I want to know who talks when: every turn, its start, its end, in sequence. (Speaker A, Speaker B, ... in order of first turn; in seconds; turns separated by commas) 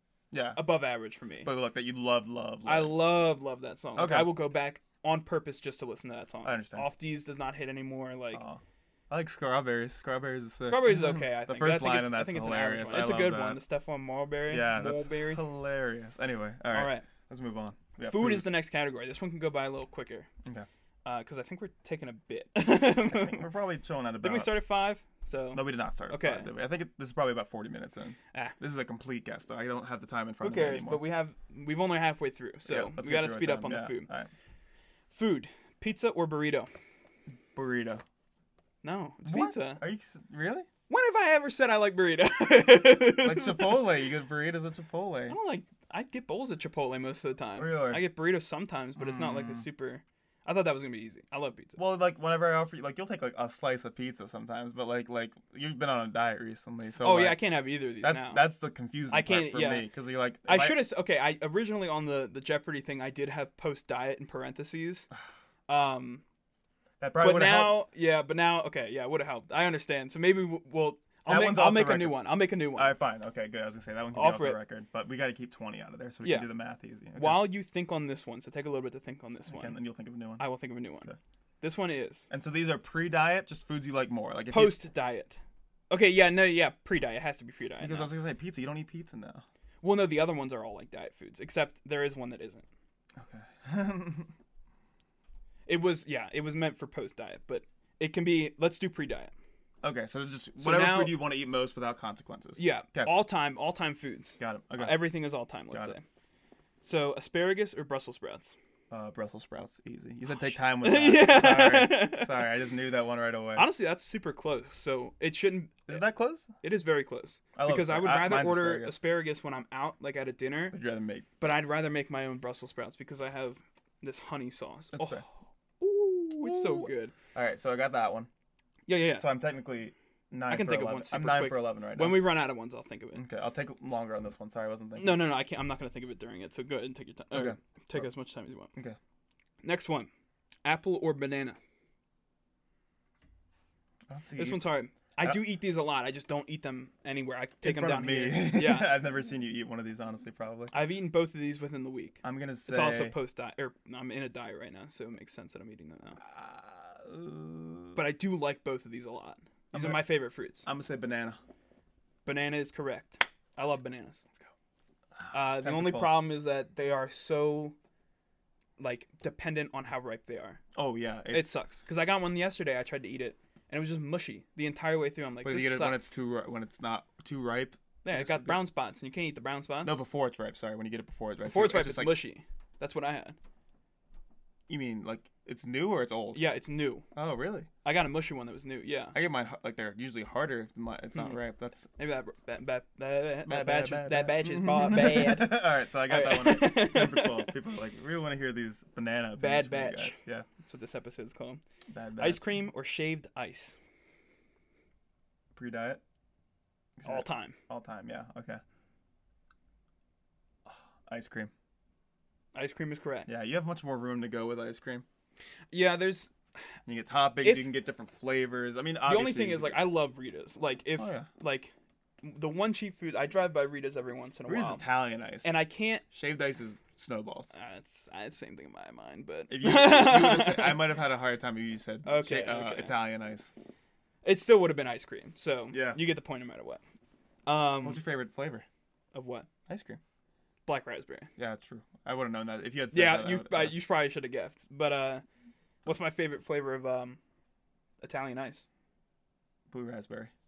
Speaker A: 0.3-0.6, Speaker B: 0.6-1.5, Speaker A: 1.4-3.0, Speaker B: 2.7-8.4, Speaker A: 4.0-4.4, Speaker A: 6.4-6.9, Speaker A: 8.3-13.6, Speaker B: 10.7-15.4, Speaker A: 14.5-18.5, Speaker B: 16.7-17.1, Speaker B: 18.1-20.3, Speaker B: 21.1-23.5, Speaker A: 23.0-24.5, Speaker B: 24.2-26.5, Speaker A: 25.5-31.0, Speaker B: 30.4-34.1, Speaker A: 32.6-34.3, Speaker B: 35.1-36.7, Speaker A: 37.5-38.0, Speaker B: 38.8-39.8, Speaker A: 39.2-40.7, Speaker B: 40.9-43.9, Speaker A: 43.2-45.4, Speaker B: 45.3-51.8, Speaker A: 47.6-48.0, Speaker A: 49.0-49.7, Speaker A: 51.8-57.4, Speaker B: 57.0-58.4, Speaker A: 58.0-60.8, Speaker B: 59.1-59.9, Speaker B: 60.5-65.1, Speaker B: 65.7-66.2, Speaker A: 67.0-67.8, Speaker B: 67.2-72.9, Speaker A: 71.3-72.2, Speaker A: 72.7-77.5, Speaker B: 74.1-74.6, Speaker B: 77.2-79.8, Speaker A: 79.5-80.4, Speaker B: 80.4-82.3, Speaker A: 82.3-84.8, Speaker B: 84.5-88.1, Speaker A: 87.8-89.5, Speaker B: 89.8-92.7, Speaker A: 93.2-94.3, Speaker B: 95.7-99.3, Speaker A: 99.8-103.2, Speaker B: 100.6-101.2, Speaker B: 102.6-106.0, Speaker A: 104.4-105.1, Speaker A: 105.7-106.0, Speaker B: 106.8-108.6, Speaker A: 108.9-113.7, Speaker B: 110.8-112.5, Speaker B: 113.6-116.0, Speaker A: 115.9-116.5, Speaker B: 116.6-120.8, Speaker A: 117.6-119.0, Speaker A: 120.7-121.3, Speaker B: 121.4-127.2, Speaker A: 124.9-125.2, Speaker A: 126.3-128.3, Speaker B: 128.9-129.3, Speaker A: 129.1-132.3, Speaker B: 130.5-133.2, Speaker A: 133.2-135.3, Speaker B: 135.0-138.7, Speaker A: 137.3-138.1, Speaker B: 139.6-140.1, Speaker B: 140.6-141.6, Speaker A: 144.1-144.6, Speaker B: 144.4-148.9, Speaker A: 147.6-150.7, Speaker B: 150.7-156.2, Speaker A: 152.2-153.2, Speaker A: 156.2-158.0, Speaker B: 157.9-160.7, Speaker A: 159.7-160.1, Speaker A: 160.6-161.4, Speaker B: 162.2-164.2, Speaker A: 165.2-166.3, Speaker B: 165.3-167.8, Speaker B: 168.8-170.6, Speaker A: 170.8-171.5, Speaker B: 171.3-176.0, Speaker A: 175.4-178.6, Speaker B: 178.1-180.0, Speaker A: 179.8-182.2, Speaker B: 181.4-183.4, Speaker A: 184.7-186.4, Speaker B: 186.3-187.1, Speaker A: 187.1-187.7, Speaker B: 187.8-189.2, Speaker A: 189.1-191.9, Speaker B: 191.1-191.4, Speaker B: 192.0-197.5, Speaker A: 193.5-200.5, Speaker B: 199.4-201.6, Speaker A: 201.9-202.4, Speaker B: 202.2-203.8, Speaker A: 205.6-206.0, Speaker A: 207.0-208.6, Speaker B: 207.1-207.6, Speaker A: 210.7-211.5, Speaker B: 212.6-213.3, Speaker A: 213.3-215.1, Speaker B: 215.7-216.3, Speaker A: 216.9-219.8, Speaker B: 217.4-217.7, Speaker B: 219.1-224.8, Speaker A: 221.0-221.3, Speaker A: 224.5-225.6, Speaker B: 225.4-226.1, Speaker A: 226.1-227.5, Speaker B: 227.5-230.9, Speaker A: 229.5-233.5, Speaker B: 232.1-233.0, Speaker B: 234.2-236.8, Speaker A: 235.7-236.0, Speaker B: 237.5-238.0, Speaker A: 237.8-238.7, Speaker B: 239.1-239.5, Speaker A: 239.7-240.0, Speaker B: 240.7-241.3, Speaker A: 241.4-243.8, Speaker B: 242.9-245.2, Speaker B: 245.9-247.2, Speaker B: 248.0-248.7, Speaker A: 249.7-250.3